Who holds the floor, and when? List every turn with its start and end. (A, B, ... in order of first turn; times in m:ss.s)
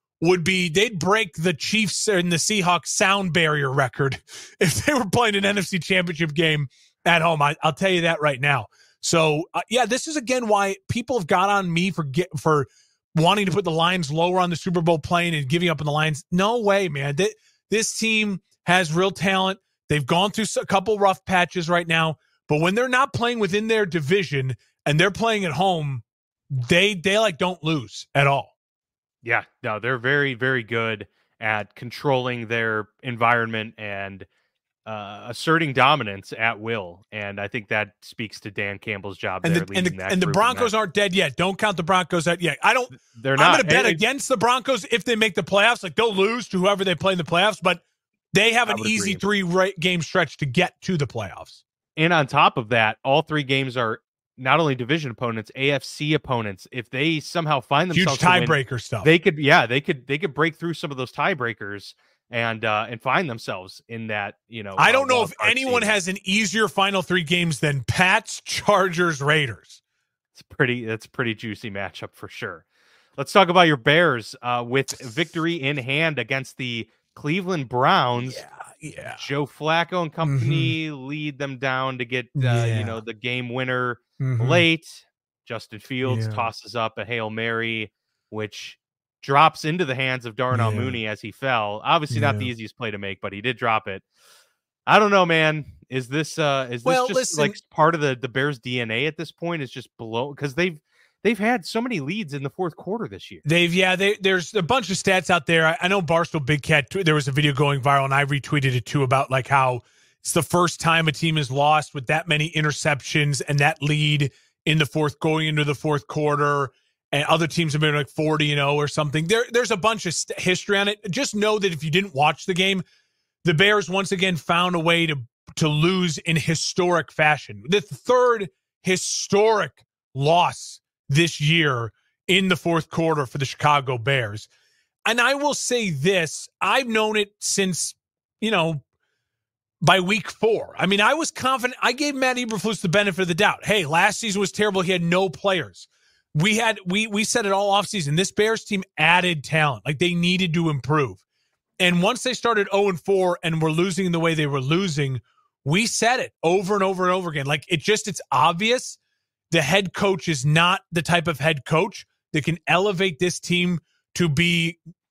0:00.2-0:28.5 A
0:29.2-0:34.3 B
0:34.8-0:40.7 B
0:39.4-0:47.8 A
0:43.0-0:44.0 B
0:48.3-0:51.6 A
0:48.7-0:49.2 B
0:52.0-1:06.0 B
0:57.9-0:59.1 A
1:04.8-1:09.8 A
1:10.3-1:12.6 B
1:13.2-1:18.4 B
1:18.2-1:19.2 A
1:19.2-1:34.0 B
1:20.2-1:20.7 A
1:22.4-1:23.0 A
1:24.2-1:24.6 A
1:26.0-1:26.5 A
1:30.5-1:31.0 A
1:32.1-1:32.5 A
1:34.9-1:43.4 B
1:36.8-1:37.6 A
1:43.4-2:02.8 A
2:03.4-2:14.5 A
2:15.0-2:18.8 A
2:19.8-2:31.2 A
2:31.8-2:39.0 A
2:39.5-2:44.8 A